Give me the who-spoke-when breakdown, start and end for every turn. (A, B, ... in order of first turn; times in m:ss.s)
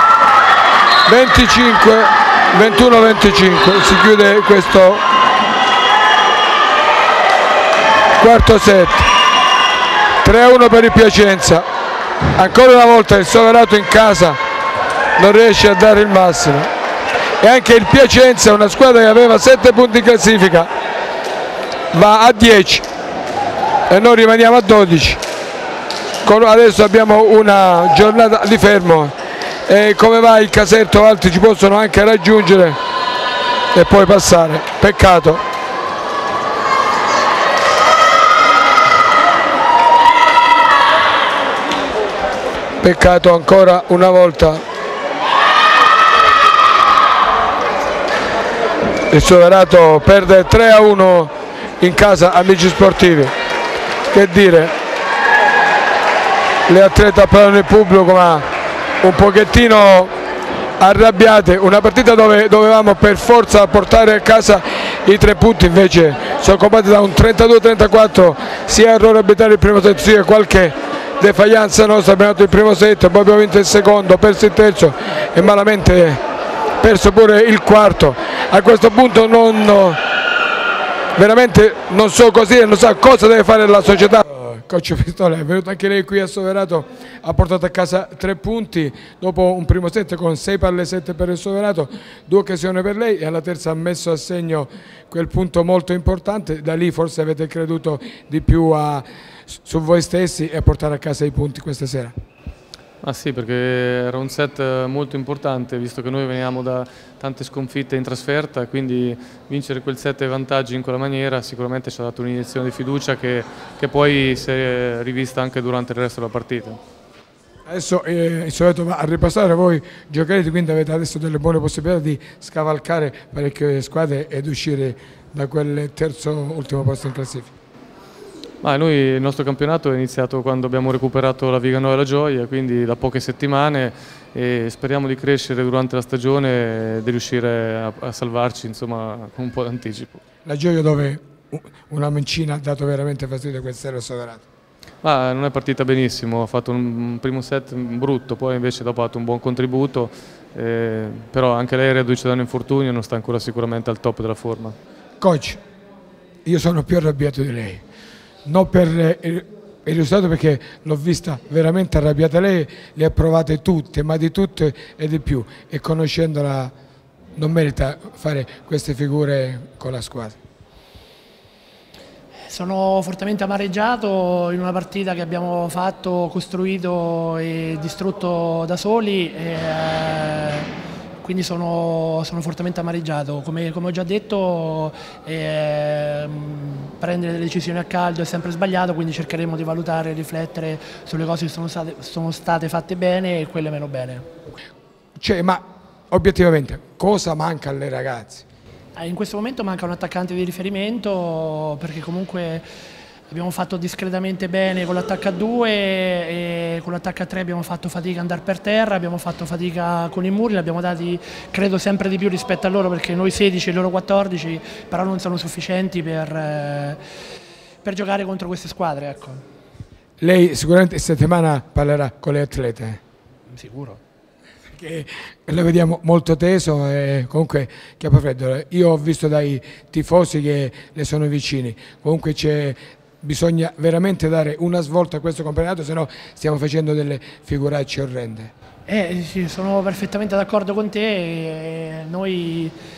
0:01.1-0:05.0 A
0:08.2-0:09.1 A
0:10.2-0:11.6 A
0:12.3-0:14.4 A
0:15.2-0:16.7 A
0:17.4-0:20.7 A
0:21.9-0:22.8 A
0:23.9-0:25.2 A
0:26.2-0:29.1 A
0:29.7-0:32.8 A
0:33.7-0:35.4 A
0:42.8-0:44.6 A
0:49.1-0:53.3 A
0:54.1-0:54.7 A
0:56.7-0:58.4 A
0:59.0-1:00.1 A
1:00.8-1:16.2 A
1:16.8-1:20.0 A
1:21.1-1:42.1 A
1:43.0-1:56.8 B
1:57.6-2:07.5 A
2:08.6-2:20.2 B
2:20.4-2:24.4 A
2:25.0-2:34.8 B
2:35.2-2:35.6 A
2:36.4-2:37.8 A
2:38.4-2:46.7 A
2:47.4-2:50.4 A
2:52.5-3:00.7 C
3:01.2-3:14.2 C
3:15.2-3:18.4 A
3:19.0-3:22.6 C
3:23.3-3:37.0 C
3:37.8-3:39.4 C
3:40.2-3:43.0 A
3:43.5-3:44.0 C
3:44.7-3:58.5 A
3:58.9-4:02.7 C